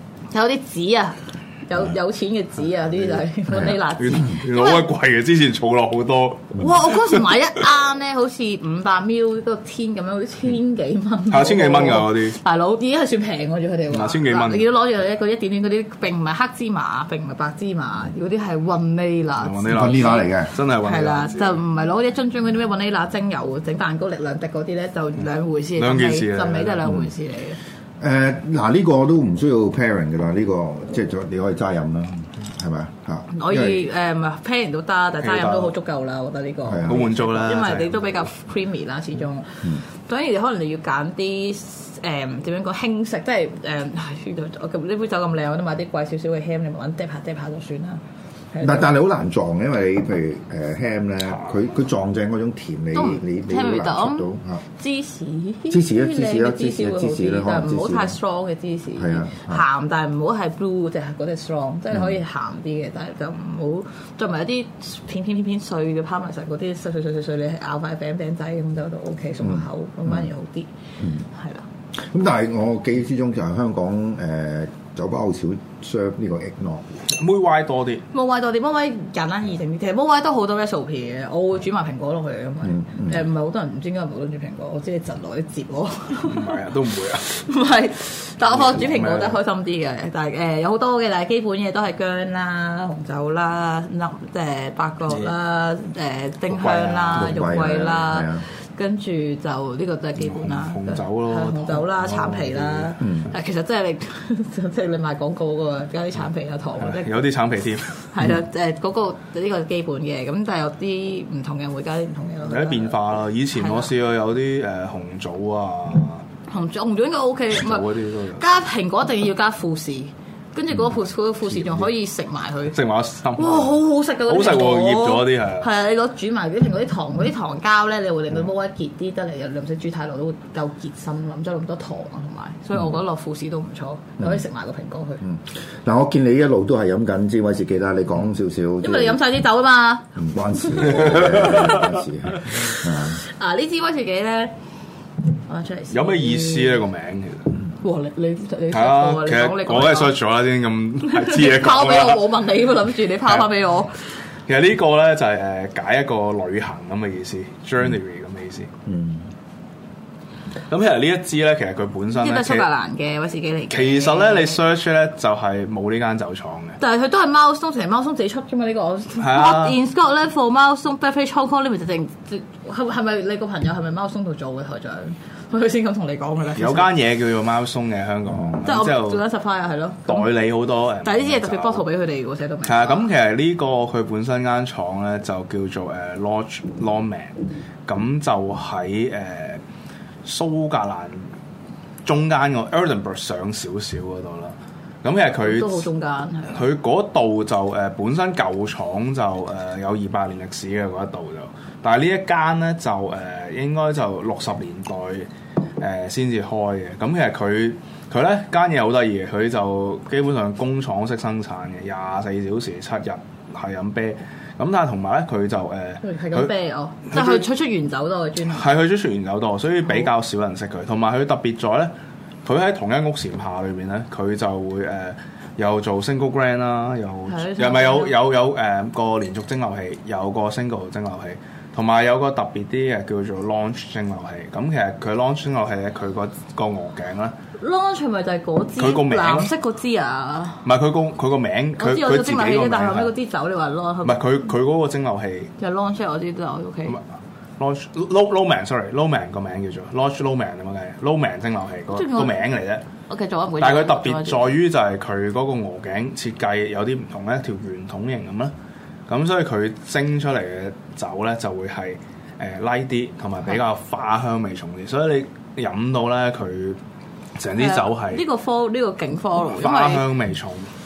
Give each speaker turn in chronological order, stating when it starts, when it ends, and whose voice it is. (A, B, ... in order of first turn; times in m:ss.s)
0:00.3-0:04.8 A
0:04.0-0:07.5 B
0:06.5-0:27.6 A
0:11.3-0:12.4 B
0:13.9-0:14.7 B
0:19.4-0:21.6 B
0:19.7-0:20.5 C
0:25.8-0:26.8 B
0:28.0-0:33.9 C
0:33.3-0:48.0 A
0:35.2-0:35.7 B
0:36.6-0:37.3 C
0:36.8-0:38.3 B
0:48.5-0:48.9 A
0:48.6-0:54.6 C
0:52.9-1:10.7 A
0:55.7-0:58.2 C
0:59.0-0:59.6 C
1:09.4-1:10.2 C
1:11.0-1:11.2 C
1:11.3-1:11.6 A
1:12.0-1:17.0 C
1:17.1-1:18.0 B
1:18.1-1:26.5 A
1:22.6-1:23.2 C
1:26.2-1:27.4 B
1:27.3-1:47.3 A
1:28.4-1:29.4 B
1:36.5-1:37.6 B
1:37.1-1:38.4 C
1:40.2-1:43.0 B
1:43.0-1:43.3 C
1:46.8-1:48.0 B
1:48.0-1:53.0 A
1:52.5-1:56.2 B
1:53.5-1:53.9 A
1:56.5-2:02.8 A
1:57.5-1:58.4 B
2:01.6-2:01.9 B
2:02.7-2:05.7 B
2:03.4-2:15.2 A
2:15.2-2:19.2 C
2:18.8-2:20.1 A
2:20.2-2:23.2 C
2:20.9-2:21.6 A
2:21.0-2:21.7 B
2:23.1-2:24.5 A
2:25.5-2:26.8 A
2:25.9-2:27.5 B
2:27.8-2:30.1 A
2:28.7-2:32.3 B
2:31.1-2:33.9 A
2:34.5-2:38.7 B
2:38.8-2:39.3 C
2:40.7-2:42.7 B
2:42.1-2:44.6 A
2:43.7-2:46.8 B
2:46.8-2:56.9 A
2:49.2-2:49.8 B
2:56.6-2:59.2 B
2:58.6-3:00.3 A
3:00.0-3:01.8 B
3:01.0-3:03.1 A
3:02.6-3:09.6 B
3:10.2-3:11.3 B
3:12.0-3:15.9 B
3:15.3-3:16.6 A
3:16.5-3:36.5 B
3:36.0-3:38.6 A
3:37.0-3:37.5 B
3:38.4-3:57.4 B
3:47.3-3:48.1 A
3:57.6-4:00.6 A
3:58.8-3:59.5 B
4:00.6-4:03.1 B
4:01.8-4:04.3 A
4:04.0-4:05.5 B
4:05.6-4:07.0 A
4:07.6-4:12.8 B
4:11.9-4:12.4 A
4:13.1-4:14.6 A
4:13.6-4:18.5 B
4:19.1-4:26.8 B
4:27.4-4:28.2 B
4:27.5-4:30.1 A
4:29.5-4:30.7 B